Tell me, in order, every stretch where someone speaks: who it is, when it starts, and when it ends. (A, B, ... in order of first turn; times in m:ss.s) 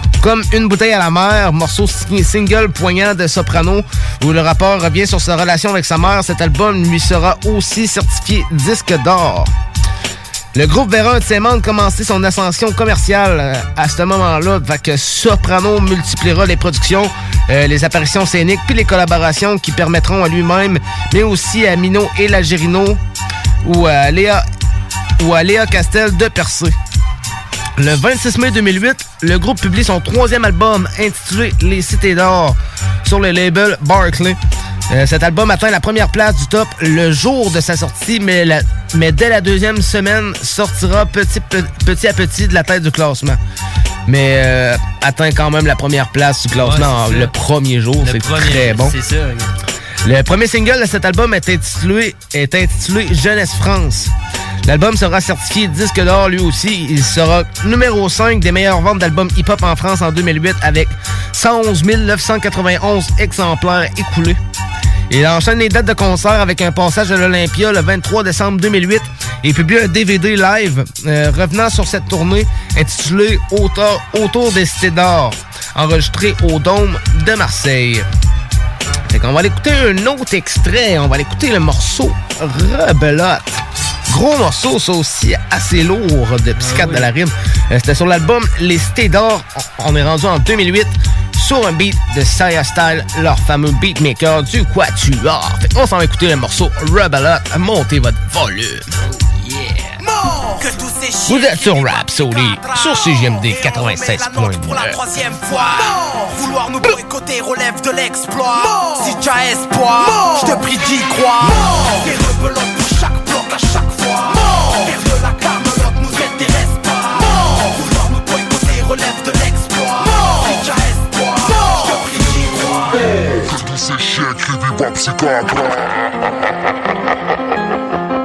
0:00.2-0:09.5 A
0:10.5-0:23.0 A
0:23.6-0:24.4 A
0:25.2-0:26.7 A
0:27.8-0:34.4 A
0:34.9-0:43.4 A
0:44.0-0:49.0 A
0:46.5-0:47.3 B
0:48.0-0:49.5 B
0:50.0-0:54.1 A
0:54.6-1:04.4 A
1:05.1-1:18.0 A
1:19.1-1:38.9 A
1:26.6-1:27.1 B
1:39.4-1:39.9 B
1:40.0-1:40.8 C
1:41.3-1:45.0 A
1:45.7-1:46.4 C
1:48.6-1:49.2 C
1:49.9-1:54.4 C
1:55.0-2:03.0 C